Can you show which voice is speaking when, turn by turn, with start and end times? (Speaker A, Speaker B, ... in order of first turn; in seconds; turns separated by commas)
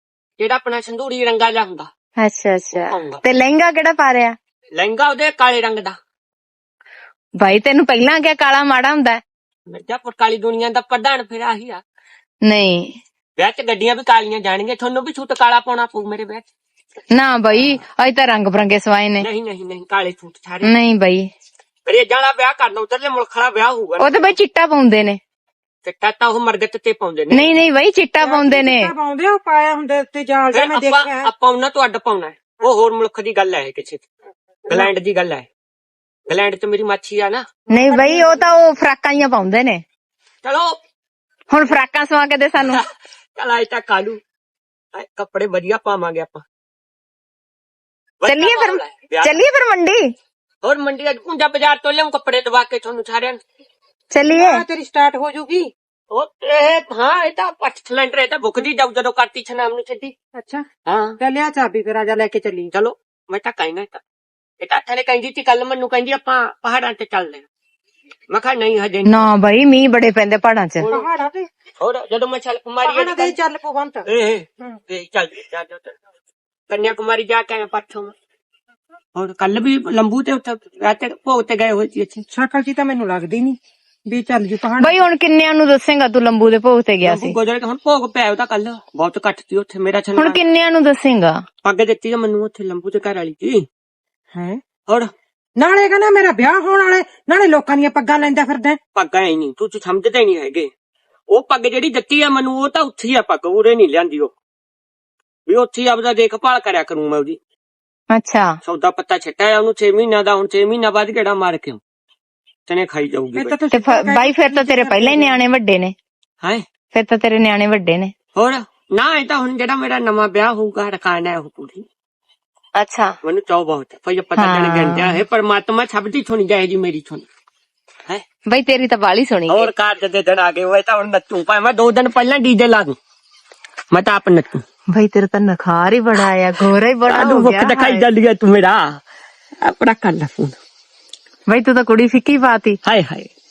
Speaker A: 0.4-1.9, Speaker B: 2.2-4.3, Speaker A: 2.7-3.2, Speaker A: 4.8-6.0, Speaker B: 7.4-9.2, Speaker A: 9.7-11.8, Speaker B: 12.4-12.9, Speaker A: 13.4-16.5, Speaker B: 17.2-19.3, Speaker A: 17.5-17.8, Speaker A: 19.2-20.8, Speaker B: 20.6-21.3, Speaker A: 21.9-24.3, Speaker B: 24.0-25.2, Speaker A: 25.8-27.6, Speaker B: 27.3-28.9, Speaker C: 28.2-31.3, Speaker A: 30.5-34.1, Speaker A: 34.7-35.5, Speaker A: 36.3-37.5, Speaker C: 37.7-38.7, Speaker B: 37.7-39.8, Speaker A: 40.4-40.8, Speaker B: 41.5-42.8, Speaker A: 42.6-42.8, Speaker A: 43.4-44.2, Speaker A: 44.9-46.4, Speaker A: 48.2-49.4, Speaker B: 48.3-50.0, Speaker A: 50.6-53.4, Speaker C: 54.3-55.7, Speaker A: 56.1-60.1, Speaker C: 60.4-60.6, Speaker A: 60.9-61.2, Speaker C: 61.2-62.7, Speaker A: 62.7-64.0, Speaker A: 64.6-67.5, Speaker A: 68.3-69.3, Speaker B: 69.1-70.9, Speaker A: 70.8-71.1, Speaker C: 70.9-71.5, Speaker A: 71.8-73.4, Speaker C: 72.8-74.1, Speaker A: 74.1-76.0, Speaker A: 76.7-78.1, Speaker A: 79.2-82.2, Speaker C: 82.3-85.0, Speaker B: 84.8-87.3, Speaker A: 87.0-90.4, Speaker B: 90.2-91.4, Speaker A: 91.6-93.7, Speaker C: 94.3-94.6, Speaker C: 95.6-98.8, Speaker A: 98.9-100.7, Speaker A: 101.3-104.3, Speaker A: 105.5-107.4, Speaker B: 108.1-108.5, Speaker A: 108.7-111.8, Speaker A: 112.7-113.6, Speaker C: 113.3-115.4, Speaker B: 113.7-115.9, Speaker B: 116.9-118.1, Speaker A: 118.3-121.8, Speaker B: 122.8-123.1, Speaker A: 123.2-127.3, Speaker B: 124.4-125.2, Speaker B: 128.5-129.7, Speaker A: 129.5-132.9, Speaker A: 133.9-134.6, Speaker B: 134.9-138.1, Speaker A: 137.1-139.0, Speaker A: 139.6-140.6, Speaker B: 141.5-142.8, Speaker A: 142.8-143.3